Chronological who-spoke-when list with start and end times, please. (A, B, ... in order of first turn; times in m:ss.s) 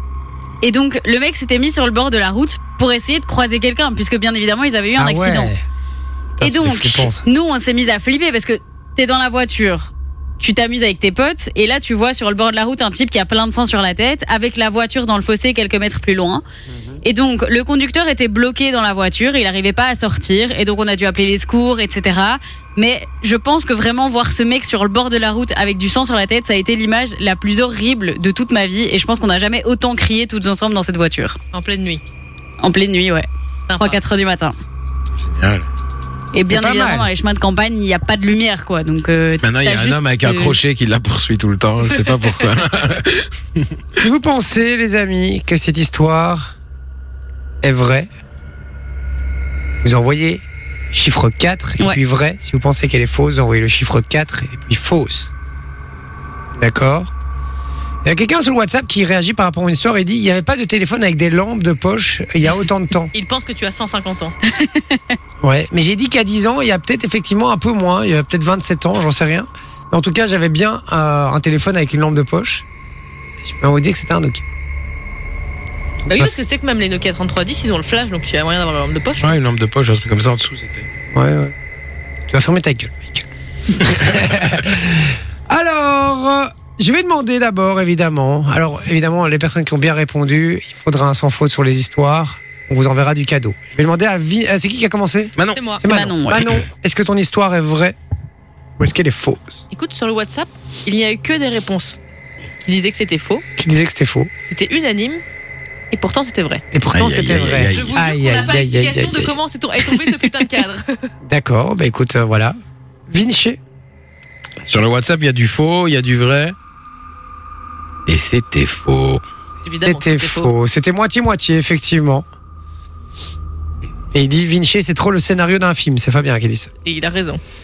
0:00.6-0:05.5 A
0:05.0-0:05.6 B
0:06.4-0:07.2 B
0:06.4-0:16.4 A
0:17.0-0:31.4 A
0:31.5-0:32.0 C
0:32.6-0:33.3 A
0:33.7-0:34.0 C
0:33.8-0:34.6 A
0:35.2-0:35.7 D
0:36.3-0:40.6 A
0:36.4-0:37.1 B
0:39.4-0:43.7 D
0:44.0-0:46.6 B
0:47.6-0:48.1 B
0:49.8-0:55.3 B
0:56.6-0:57.1 B
0:58.0-1:03.1 B
1:03.1-1:04.4 C
1:04.6-1:05.2 A
1:05.4-1:12.6 B
1:13.4-1:14.4 B
1:16.0-1:16.3 B
1:16.1-1:19.4 C
1:19.2-1:20.9 D
1:21.1-1:21.5 B
1:22.3-1:23.3 B
1:23.8-1:38.0 B
1:24.0-1:24.7 D
1:35.4-1:35.6 D
1:35.5-1:35.8 C
1:35.8-1:36.5 A
1:38.8-1:39.6 B
1:39.7-1:42.0 C
1:42.6-1:43.4 C
1:43.6-1:44.3 B
1:44.5-1:45.2 C
1:45.9-1:46.6 C
1:46.7-1:49.3 B
1:46.9-1:48.0 D
1:47.2-1:51.1 C
1:51.2-1:52.6 B
1:53.1-1:53.6 B
1:54.7-1:56.6 D
1:58.1-1:59.2 D
1:59.6-2:00.5 C
1:59.8-2:02.2 B
2:04.1-2:06.7 B
2:06.8-2:07.4 C